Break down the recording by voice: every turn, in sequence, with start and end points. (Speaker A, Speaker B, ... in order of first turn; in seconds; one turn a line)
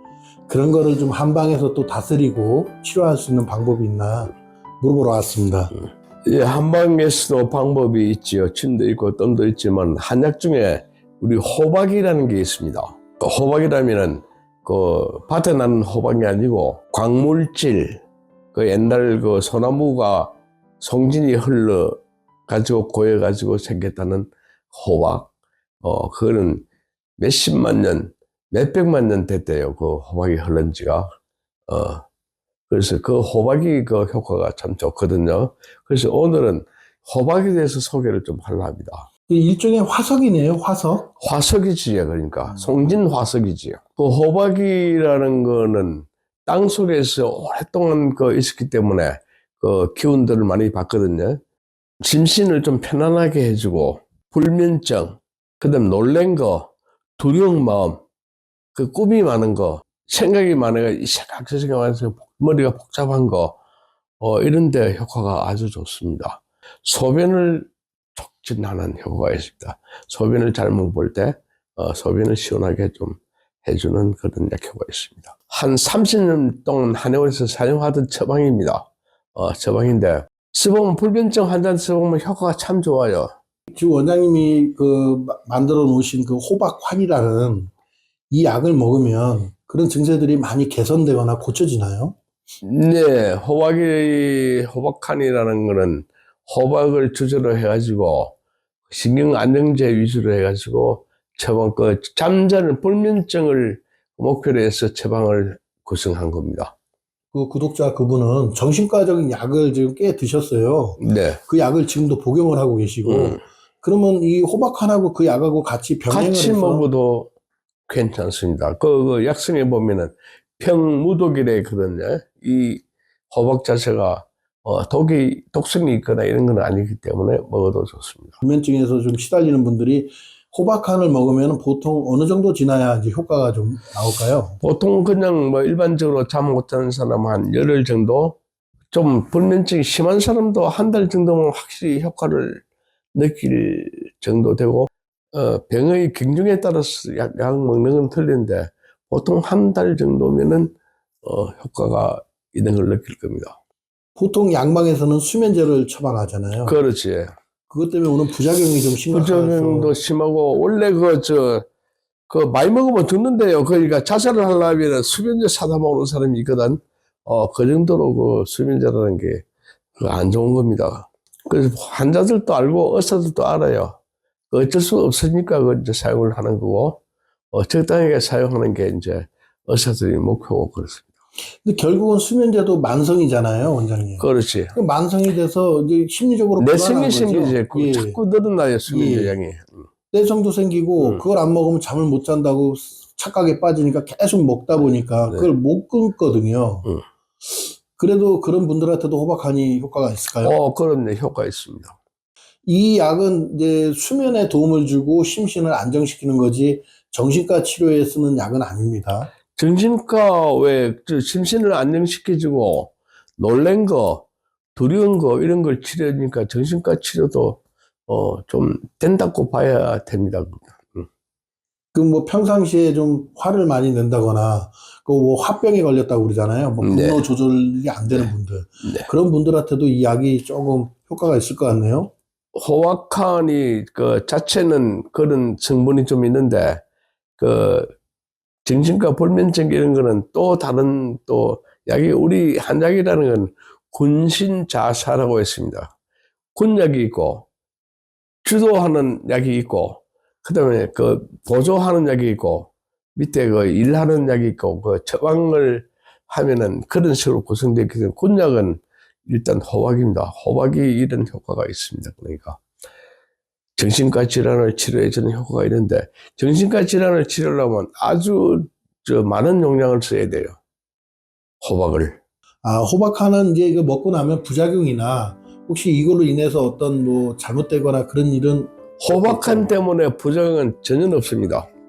Speaker A: 0.5-5.7
Speaker B: 6.2-18.0
Speaker B: 18.5-25.3
Speaker B: 25.8-26.6
Speaker B: 27.2-31.1
Speaker B: 31.7-32.0
Speaker B: 32.7-39.1
Speaker A: 39.3-41.1
Speaker B: 41.2-51.4
Speaker B: 52.0-58.0
Speaker B: 58.7-63.6
Speaker B: 64.2-83.3
Speaker A: 83.7-87.7
Speaker A: 88.3-92.2
Speaker B: 92.6-98.3
Speaker B: 98.9-106.7
Speaker A: 107.3-116.8
Speaker B: 111.0-111.4
Speaker B: 113.0-113.4
Speaker B: 116.1-117.3
Speaker B: 117.9-128.4
Speaker A: 128.4-134.6
Speaker B: 134.6-138.4
Speaker B: 138.9-142.6
Speaker B: 143.1-153.6
Speaker A: 154.2-156.8
Speaker B: 156.7-157.3
Speaker A: 157.7-159.9
Speaker B: 159.1-161.7
Speaker B: 162.3-169.4
Speaker B: 170.0-174.0
Speaker B: 174.5-177.0
Speaker B: 177.5-181.1
Speaker A: 181.6-188.2
Speaker B: 184.2-184.8
Speaker B: 186.6-189.8
Speaker A: 188.9-189.3
Speaker A: 190.1-196.9
Speaker A: 197.4-200.5
Speaker B: 200.4-201.9
Speaker A: 202.7-209.3
Speaker B: 209.5-221.1
Speaker A: 221.9-232.1
Speaker B: 226.8-227.2
Speaker B: 232.5-236.8
Speaker B: 237.4-237.9
Speaker B: 238.7-245.9
Speaker B: 246.5-247.5
Speaker B: 248.4-262.6
Speaker B: 263.8-270.6
Speaker B: 271.6-272.2
Speaker A: 272.6-279.8
Speaker B: 279.0-281.7